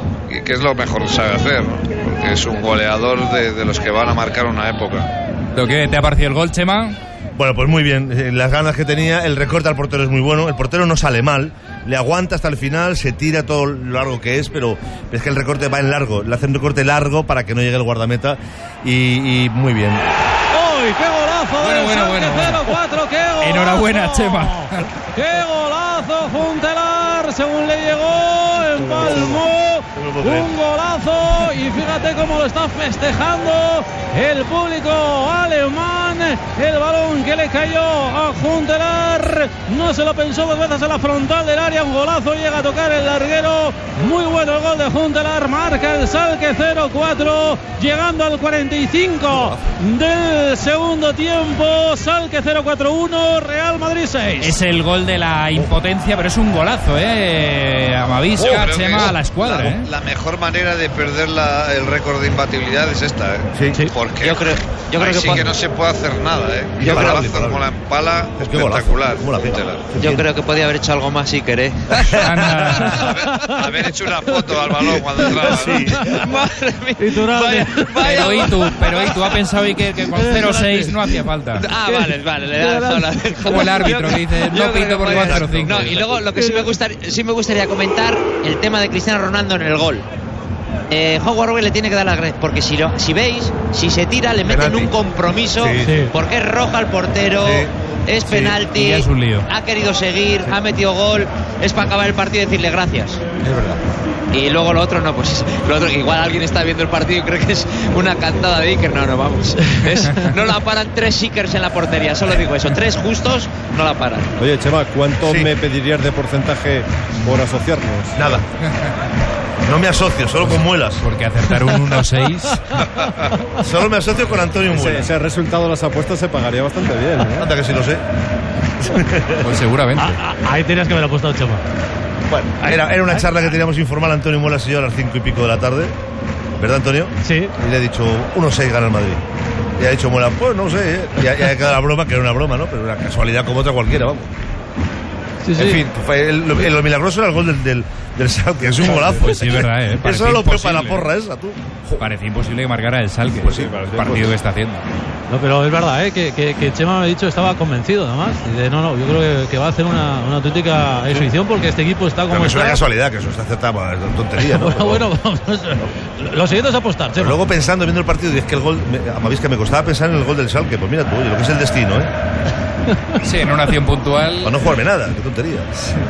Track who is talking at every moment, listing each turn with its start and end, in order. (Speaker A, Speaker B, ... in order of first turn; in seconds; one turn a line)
Speaker A: 0.3-5.1
Speaker B: 5.5-7.0
Speaker C: 7.4-20.1
Speaker D: 20.5-54.6
Speaker B: 21.6-22.7
Speaker B: 23.4-24.9
Speaker C: 28.9-29.4
Speaker C: 30.0-30.5
Speaker C: 49.3-49.6
Speaker B: 54.4-59.9
Speaker A: 58.4-69.9
Speaker C: 59.0-59.8
Speaker C: 63.5-63.8
Speaker E: 64.1-65.5
Speaker C: 66.8-67.7
Speaker E: 66.8-67.3
Speaker C: 68.4-70.3
Speaker E: 70.0-72.2
Speaker C: 71.9-72.3
Speaker B: 72.2-73.1
Speaker D: 73.0-76.3
Speaker A: 73.5-75.8
Speaker C: 75.4-76.1
Speaker E: 76.0-79.3
Speaker D: 77.0-78.9
Speaker B: 78.0-81.7
Speaker D: 80.1-83.4
Speaker E: 81.6-90.0
Speaker B: 83.5-86.0
Speaker C: 85.1-85.9
Speaker D: 86.3-86.7
Speaker E: 90.9-103.7
Speaker C: 94.4-96.0
Speaker D: 95.8-96.1
Speaker C: 97.4-97.7
Speaker B: 98.4-99.5
Speaker E: 104.3-114.3
Speaker D: 109.6-110.2
Speaker F: 114.4-118.4
Speaker C: 115.2-115.5
Speaker C: 118.2-118.5
Speaker C: 119.7-121.0
Speaker B: 121.0-122.8
Speaker D: 122.5-123.3
Speaker C: 123.6-125.1
Speaker F: 124.7-127.5
Speaker C: 127.4-128.0
Speaker C: 128.8-129.5
Speaker B: 129.4-130.2
Speaker D: 130.0-131.6
Speaker C: 132.3-135.9
Speaker D: 132.6-133.5
Speaker C: 136.6-139.2
Speaker D: 137.2-137.5
Speaker C: 139.8-144.3
Speaker D: 145.4-145.8
Speaker C: 145.6-152.1
Speaker F: 148.8-149.2
Speaker B: 149.2-151.1
Speaker B: 152.0-154.8
Speaker F: 153.4-154.3
Speaker C: 153.4-154.3
Speaker D: 155.3-162.8
Speaker C: 162.3-165.1
Speaker D: 164.4-167.4
Speaker C: 167.2-172.1
Speaker D: 172.9-173.2
Speaker B: 173.2-174.6
Speaker C: 174.4-175.7